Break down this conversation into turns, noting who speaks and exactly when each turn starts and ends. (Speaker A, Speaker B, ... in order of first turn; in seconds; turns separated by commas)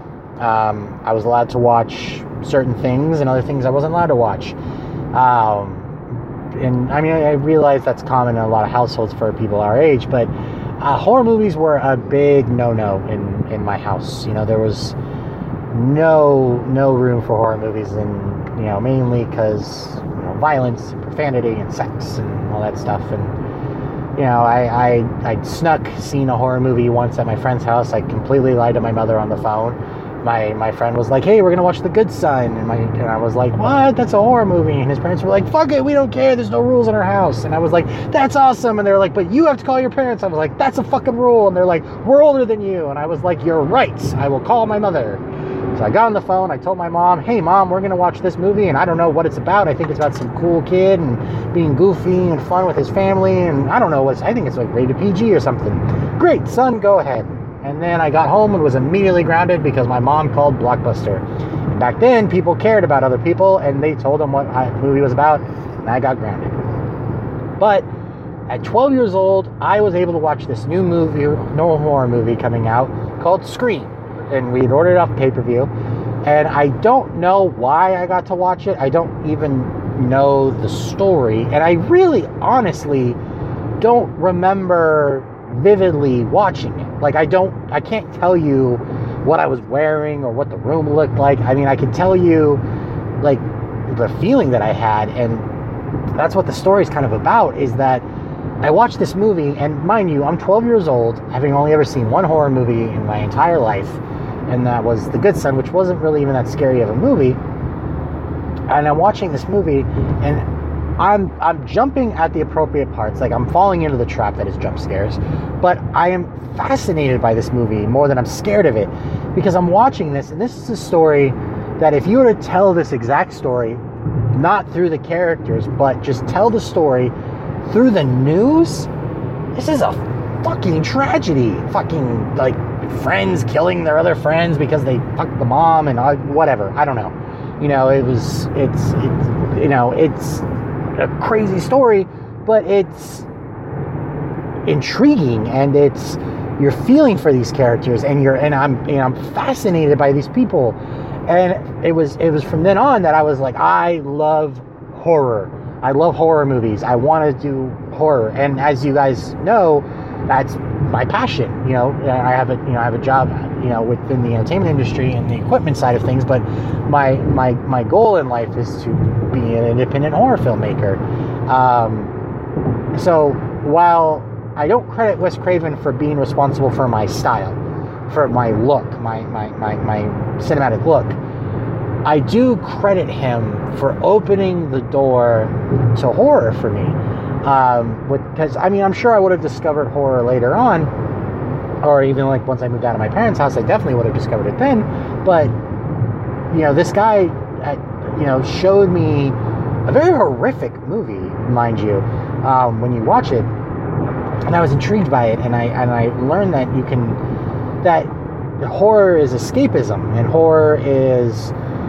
Speaker A: 0.4-4.6, Speaker A: 5.1-6.0, Speaker A: 6.5-15.0, Speaker A: 15.7-23.4, Speaker A: 24.2-45.2, Speaker A: 45.7-66.7, Speaker A: 67.6-67.9, Speaker A: 68.5-75.7, Speaker A: 76.2-83.2, Speaker A: 83.8-92.6, Speaker A: 93.2-95.5, Speaker A: 96.1-98.0, Speaker A: 98.6-107.4, Speaker A: 108.7-127.1, Speaker A: 127.7-128.9, Speaker A: 129.6-143.3, Speaker A: 144.7-172.2, Speaker A: 172.9-177.6, Speaker A: 178.1-181.2, Speaker A: 182.1-190.9, Speaker A: 191.8-195.6, Speaker A: 196.5-203.5, Speaker A: 204.4-207.2, Speaker A: 207.8-211.5